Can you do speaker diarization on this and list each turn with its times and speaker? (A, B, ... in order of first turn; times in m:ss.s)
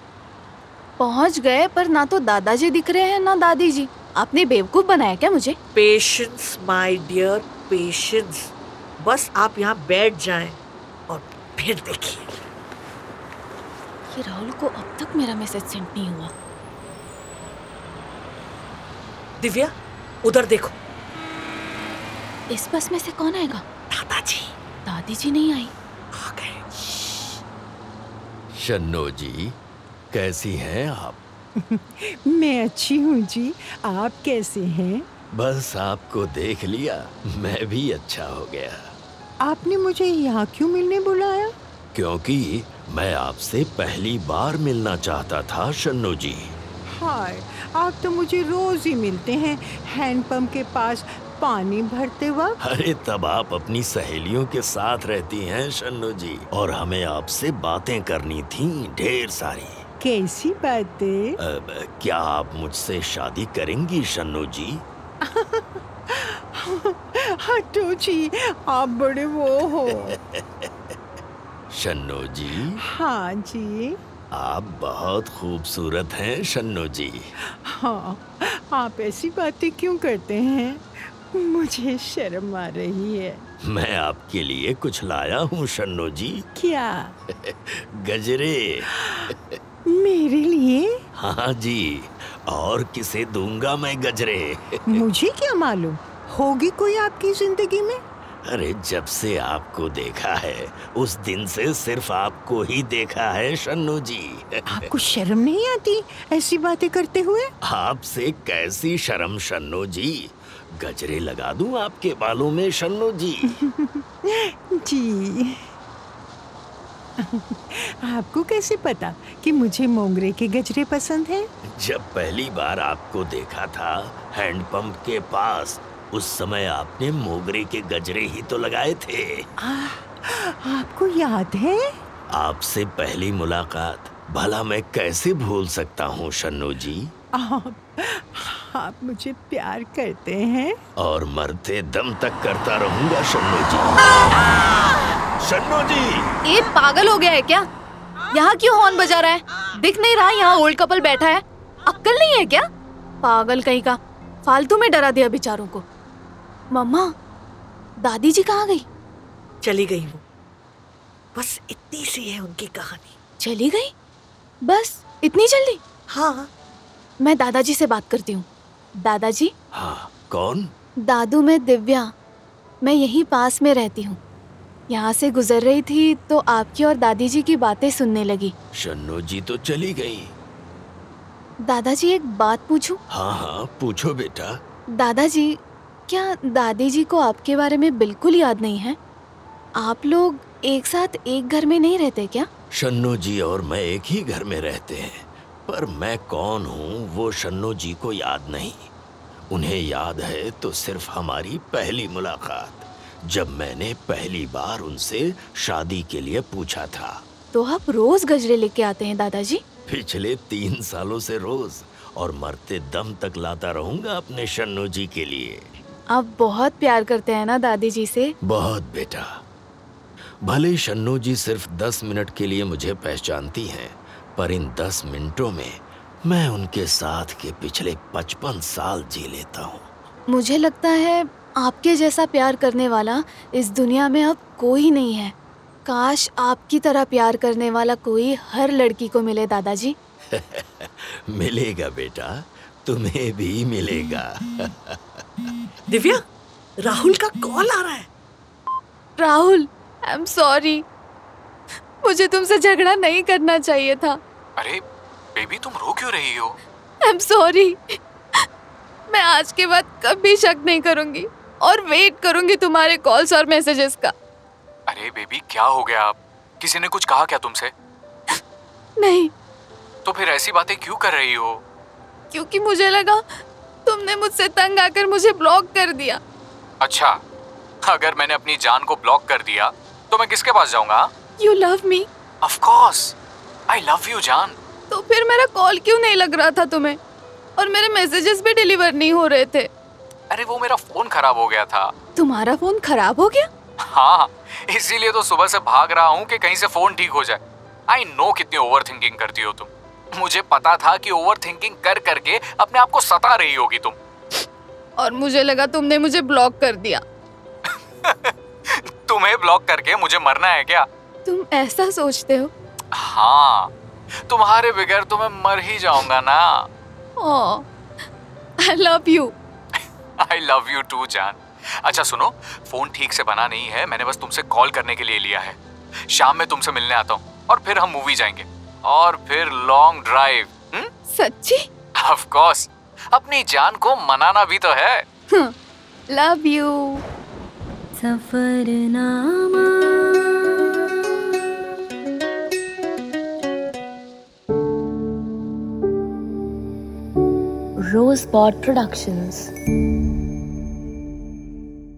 0:01.0-0:05.6 A
0:05.7-0:10.6 B
0:11.1-0:12.3 B
0:14.1-0:16.3 A
0:19.4-0:19.7 B
0:20.2-0:20.8 B
0:22.5-0:23.6 A
0:23.9-0:24.5 B
0:24.8-0:25.7 A
0:26.1-0:26.6 B
0:28.5-0:29.6 C
0:30.1-0:31.2 C
0:31.7-0:35.0 D
0:35.3-0:38.9 C
0:39.4-0:41.5 D
0:41.9-0:46.6 C
0:47.0-0:52.6 D
0:52.6-0:59.8 C
1:00.0-1:01.4 D
1:01.4-1:04.8 C
1:05.2-1:10.1 D
1:09.6-1:11.0 C
1:11.7-1:12.8 C
1:12.9-1:14.0 D
1:14.3-1:17.3 C
1:17.7-1:23.4 D
1:23.6-1:26.4 C
1:26.6-1:27.1 D
1:27.3-1:29.6 C
1:29.9-1:31.0 D
1:31.1-1:35.0 C
1:35.0-1:38.0 D
1:38.4-1:44.9 C
1:44.7-1:47.5 D
1:47.6-1:53.6 C
1:53.5-1:55.6 D
1:57.2-2:01.5 D
2:01.7-2:09.5 C
2:09.6-2:11.8 D
2:12.3-2:17.1 C
2:17.4-2:20.8 D
2:21.0-2:26.3 C
2:26.4-2:27.6 A
2:28.3-2:32.6 A
2:33.2-2:35.8 A
2:36.7-2:37.1 A
2:38.0-2:38.8 A
2:39.6-2:40.2 B
2:41.3-2:43.1 B
2:43.4-2:43.9 A
2:44.6-2:45.8 A
2:46.1-2:46.5 B
2:47.2-2:48.5 A
2:49.0-2:49.5 A
2:49.7-2:50.7 C
2:51.1-2:52.1 A
2:52.8-2:54.2 A
2:54.9-2:58.5 A
2:58.7-3:00.3 C
3:01.6-3:03.0 A
3:03.1-3:04.6 C
3:05.0-3:05.5 A
3:06.1-3:09.0 A
3:09.8-3:12.5 A
3:12.7-3:18.9 C
3:19.5-3:27.2 C
3:27.5-3:29.6 A
3:29.9-3:35.6 C
3:36.1-3:38.3 A
3:38.4-3:39.3 C
3:40.4-3:49.9 C
3:50.3-3:55.3 A
3:55.8-3:59.9 A
4:00.3-4:05.2 C
4:05.9-4:06.2 B
4:06.8-4:08.1 B
4:09.2-4:10.8 A
4:12.0-4:14.2 A
4:15.3-4:16.6 E
4:17.0-4:18.4 A
4:19.1-4:24.1 A
4:24.9-4:27.7 E
4:29.0-4:29.3 A
4:30.0-4:31.6 E
4:32.3-4:33.2 A
4:33.8-4:36.2 A
4:36.8-4:37.2 E
4:37.9-4:41.1 E
4:41.4-4:42.1 A
4:42.4-4:43.1 E
4:43.7-4:44.5 E
4:44.9-4:47.0 A
4:47.6-4:49.7 A
4:50.3-4:51.9 E
4:52.2-4:53.5 A
4:53.9-5:04.0 E
5:05.0-5:07.0 A
5:07.7-5:10.9 E
5:11.2-5:12.5 A
5:12.9-5:13.7 E
5:14.3-5:16.7 E
5:17.2-5:17.7 A
5:18.6-5:19.3 A
5:20.2-5:25.6 E
5:26.1-5:30.9 E
5:31.1-5:31.6 A
5:32.0-5:35.0 E
5:36.1-5:37.0 A
5:37.9-5:40.2 F
5:47.8-5:49.5 F